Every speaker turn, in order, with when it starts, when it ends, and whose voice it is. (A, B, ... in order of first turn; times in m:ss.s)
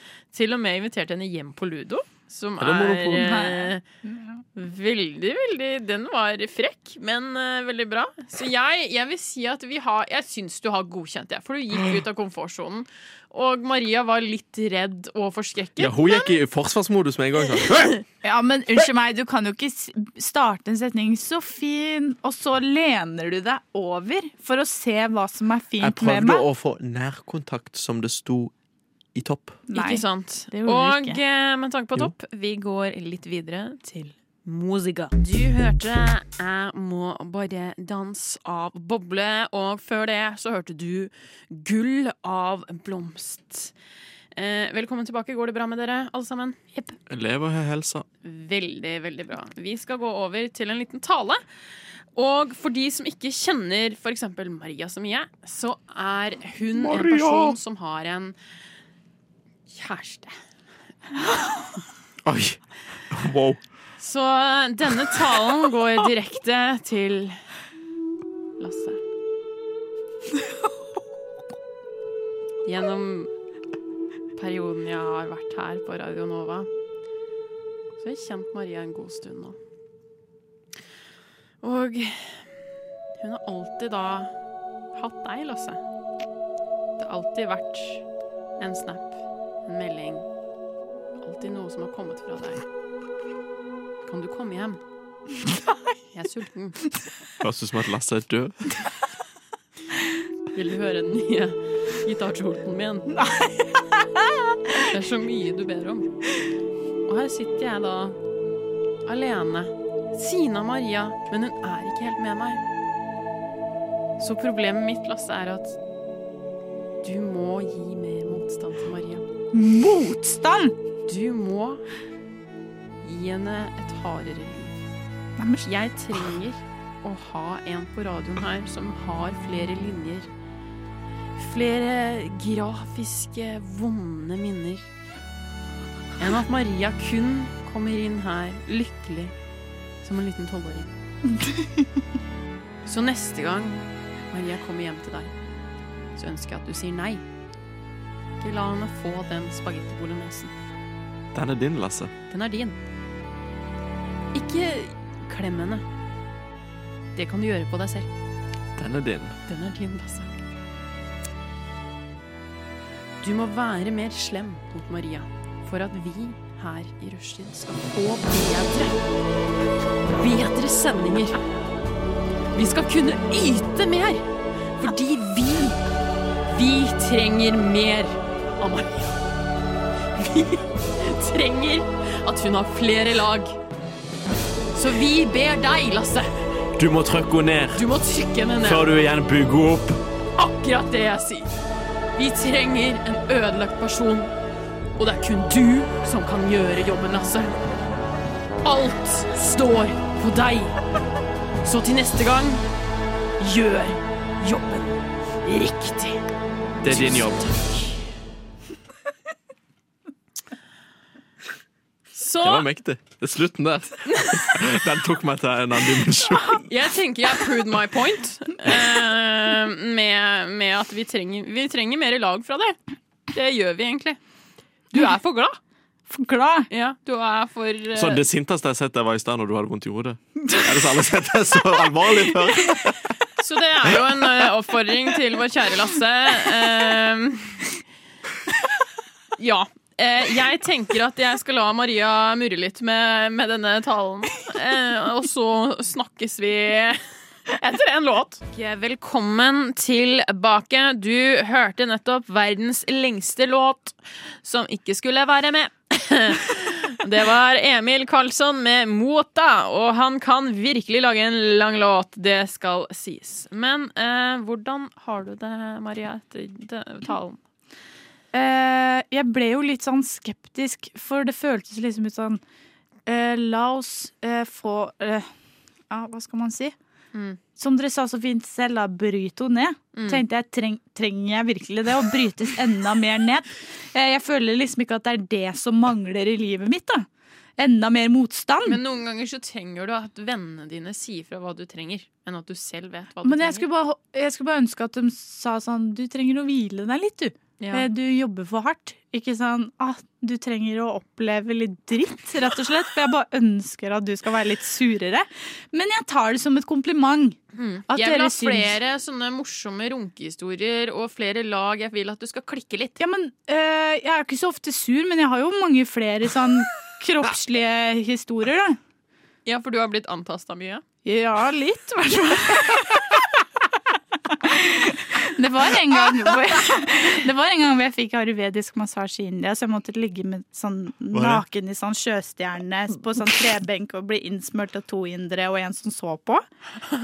0:00.3-0:03.8 A
0:02.6-0:03.5 B
0:03.2-0:04.4 C
0:04.6-0:16.4 A
0:15.8-0:17.9 B
0:17.7-0:18.0 A
0:18.2-0:26.4 C
0:25.8-0:28.5 B
0:29.2-0:29.6 B
0:29.7-0:31.2 C
0:29.7-0:43.7 A
0:44.4-0:46.6 A
0:47.1-0:48.0 B
0:48.2-0:51.4 A
0:52.1-0:58.4 A
0:56.7-0:57.6 B
0:59.7-1:00.4 A
1:02.2-1:03.6 B
1:04.0-1:07.4 A
1:08.6-1:09.0 A
1:12.6-1:13.3 A
1:14.4-1:16.7 A
1:18.0-1:19.6 A
1:21.6-1:22.5 A
1:23.2-1:24.4 A
1:24.9-1:25.8 A
1:27.0-1:28.0 A
1:28.6-1:30.3 A
1:31.2-1:32.6 A
1:34.0-1:34.8 A
1:35.5-1:35.8 C
1:36.1-1:36.8 A
1:37.4-1:38.7 B
1:40.5-1:43.2 A
1:43.2-1:44.8 C
1:44.8-1:46.1 A
1:47.1-1:48.2 A
1:49.1-1:52.6 A
1:54.2-1:55.8 A
1:57.0-1:59.2 A
1:59.5-2:00.8 C
2:01.1-2:01.8 A
2:03.0-2:04.8 A
2:05.4-2:05.6 C
2:05.6-2:10.3 A
2:11.4-2:14.9 A
2:16.2-2:19.3 A
2:20.0-2:20.9 A
2:21.4-2:21.8 C
2:22.8-2:25.3 A
2:26.2-2:27.2 A
2:28.4-2:30.5 A
2:31.3-2:32.1 B
2:32.3-2:32.8 A
2:34.3-2:35.9 A
2:37.2-2:38.1 A
2:38.8-2:39.4 B
2:39.5-2:40.3 A
2:43.2-2:49.0 A
2:50.2-2:51.4 A
2:52.5-2:55.8 A
2:56.5-2:59.2 A
3:00.1-3:03.6 A
3:04.7-3:06.3 A
3:06.8-3:07.9 B
3:07.7-3:08.9 A
3:08.6-3:10.0 B
3:10.4-3:11.5 A
3:12.2-3:14.3 A
3:15.0-3:17.6 A
3:18.6-3:20.8 A
3:21.6-3:22.6 A
3:23.4-3:26.2 A
3:26.8-3:28.1 A
3:26.8-3:27.4 B
3:32.1-3:32.7 A
3:32.4-3:36.6 B
3:36.6-3:42.8 A
3:43.3-3:44.2 A
3:44.9-3:45.6 A
3:46.1-3:46.7 C
3:46.7-3:48.2 A
3:48.0-3:53.1 B
3:53.4-3:57.7 A
3:59.4-4:27.4 A
4:28.3-4:32.4 C
4:33.1-4:35.3 C
4:35.9-4:36.8 C
4:37.1-4:37.4 A
4:37.6-4:47.1 C
4:39.9-4:40.2 A
4:47.6-4:48.8 C
4:48.6-4:53.7 A
4:53.2-5:08.8 C
4:57.6-4:57.9 A
5:07.6-5:13.0 A
5:13.0-5:18.8 C
5:19.5-5:20.8 A
5:21.0-5:23.3 C
5:24.3-5:36.4 C
5:31.1-5:31.4 B